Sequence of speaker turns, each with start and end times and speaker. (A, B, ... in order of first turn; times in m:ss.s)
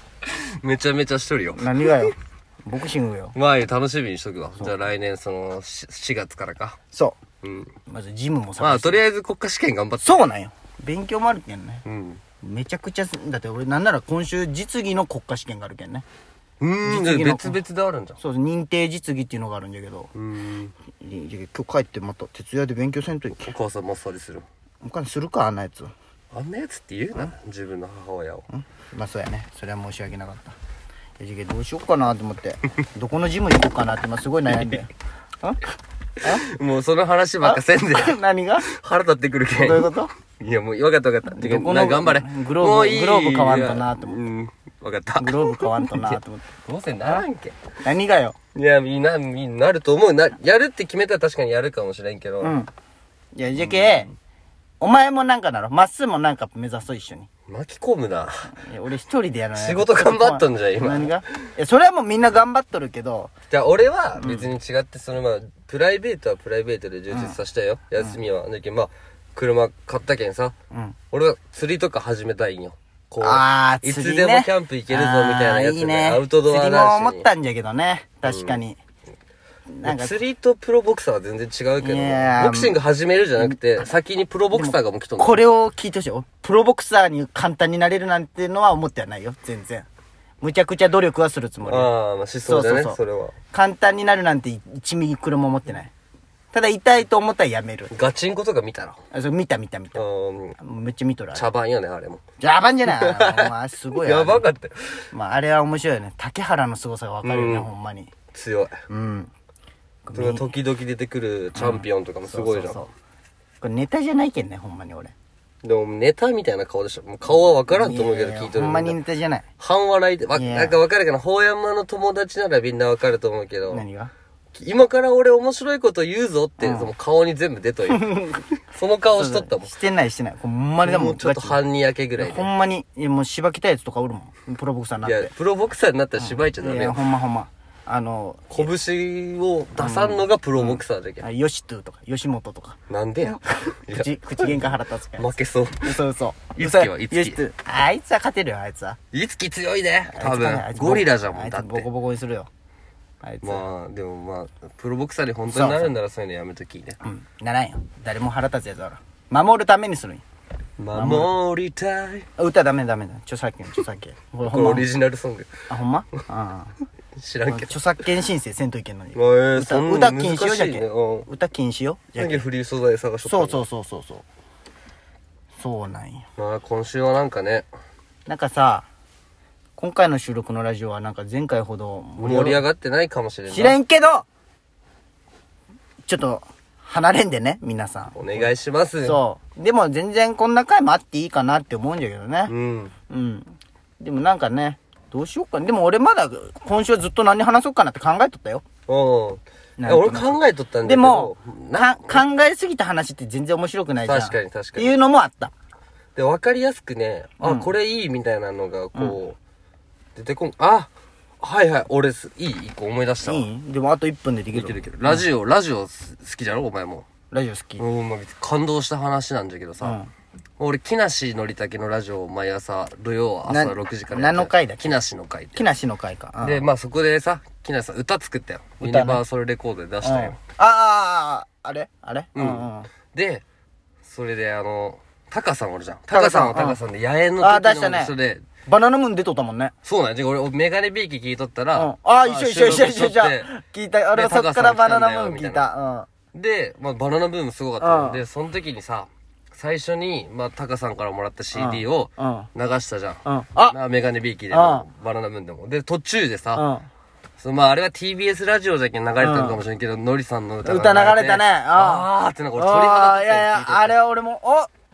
0:00.2-0:02.1 A
0:01.6-0:03.4 B
0:03.4-0:06.8 A
0:07.4-0:07.7 A
0:07.9-0:09.0 B
0:08.6-0:10.3 A
0:10.0-0:11.8 B
0:11.8-0:12.2 A
0:12.4-0:16.0 B
0:16.6-0:18.2 A
0:16.8-0:17.6 B
0:18.2-0:20.1 B
0:20.1-0:20.7 A
0:21.0-0:23.5 B
0:23.4-0:24.4 A
0:24.8-0:25.9 B
0:26.3-0:28.5 A
0:28.5-0:30.6 B
0:31.2-0:34.9 B
0:35.4-0:35.7 B
0:36.2-0:47.6 A
0:37.4-0:38.7 B
0:39.6-0:40.1 B
0:41.2-0:44.2 B
0:45.2-0:46.4 B
0:47.8-0:48.4 B
0:48.6-0:52.6 A
0:52.4-0:52.7 B
0:53.4-0:54.1 B
0:53.6-0:54.1 A
0:54.8-0:57.3 B
0:57.5-0:58.6 A
0:58.5-1:03.3 B
0:59.5-1:01.2 A
1:03.5-1:10.5 A
1:04.2-1:04.5 B
1:07.1-1:07.4 B
1:10.7-1:11.0 B
1:11.1-1:17.2 A
1:13.2-1:18.8 B
1:18.2-1:18.6 A
1:19.7-1:20.1 B
1:19.8-1:25.4 A
1:21.8-1:22.8 B
1:24.5-1:29.9 B
1:30.4-1:31.9 B
1:31.6-1:33.4 A
1:32.4-1:33.0 B
1:33.5-1:35.9 B
1:36.5-1:37.9 B
1:37.9-1:39.0 A
1:39.1-1:40.0 B
1:40.0-1:40.6 A
1:40.6-1:41.5 B
1:41.3-1:42.2 A
1:42.4-1:44.5 B
1:42.9-1:45.0 A
1:45.1-1:48.1 B
1:47.2-1:47.7 A
1:48.3-1:48.8 A
1:48.9-1:49.3 B
1:50.1-1:50.5 B
1:50.1-1:52.8 A
1:51.6-1:52.9 B
1:53.6-1:55.1 B
1:55.6-1:59.0 A
1:57.7-1:59.5 B
1:59.6-2:03.8 A
2:00.4-2:00.8 B
2:03.7-2:04.1 B
2:04.5-2:09.7 A
2:06.6-2:06.9 B
2:07.9-2:08.4 B
2:09.1-2:11.6 B
2:10.8-2:12.5 A
2:12.2-2:15.3 B
2:15.0-2:17.1 A
2:16.2-2:18.7 B
2:18.5-2:21.2 A
2:19.8-2:25.3 B
2:22.9-2:26.0 A
2:25.8-2:29.0 B
2:26.6-2:27.4 A
2:29.1-2:31.9 A
2:30.1-2:32.5 B
2:33.2-2:33.6 B
2:33.4-2:37.0 A
2:35.5-2:35.9 B
2:37.0-2:40.2 B
2:40.8-2:42.3 A
2:41.0-2:41.3 B
2:42.4-2:44.9 B
2:44.4-2:45.5 A
2:45.7-2:46.8 B
2:47.2-2:47.8 A
2:47.5-2:52.5 B
2:49.1-2:51.3 A
2:52.2-2:53.6 A
2:53.2-2:54.2 B
2:55.6-2:56.2 B
2:56.4-2:57.7 A
2:58.3-2:58.9 B
2:59.8-3:02.6 B
3:02.2-3:03.8 A
3:03.5-3:04.2 B
3:06.1-3:08.5 B
3:08.1-3:09.2 A
3:09.0-3:12.5 B
3:12.5-3:12.9 A
3:13.1-3:18.6 B
3:18.9-3:22.2 A
3:19.8-3:25.5 B
3:24.0-3:25.0 A
3:26.1-3:29.4 A
3:27.4-3:27.7 B
3:30.2-3:33.5 A
3:33.2-3:35.2 B
3:34.5-3:37.1 A
3:37.3-3:37.8 B
3:37.8-3:40.0 A
3:39.8-3:40.1 B
3:40.6-3:45.6 A
3:43.5-3:45.0 B
3:45.5-3:46.6 B
3:46.4-3:50.4 A
3:48.8-3:49.2 B
3:50.0-3:52.9 B
3:52.4-3:53.4 A
3:54.0-3:58.4 A
3:56.1-3:56.8 B
3:57.4-3:58.1 B
3:58.6-3:59.7 B
3:59.8-4:03.5 A
4:01.8-4:06.1 B
4:04.1-4:05.7 A
4:06.3-4:16.6 A
4:07.8-4:08.2 B
4:11.5-4:12.5 B
4:13.2-4:13.8 B
4:14.5-4:14.9 B
4:16.5-4:16.9 B
4:17.4-4:24.0 A
4:19.2-4:19.6 B
4:20.6-4:24.7 B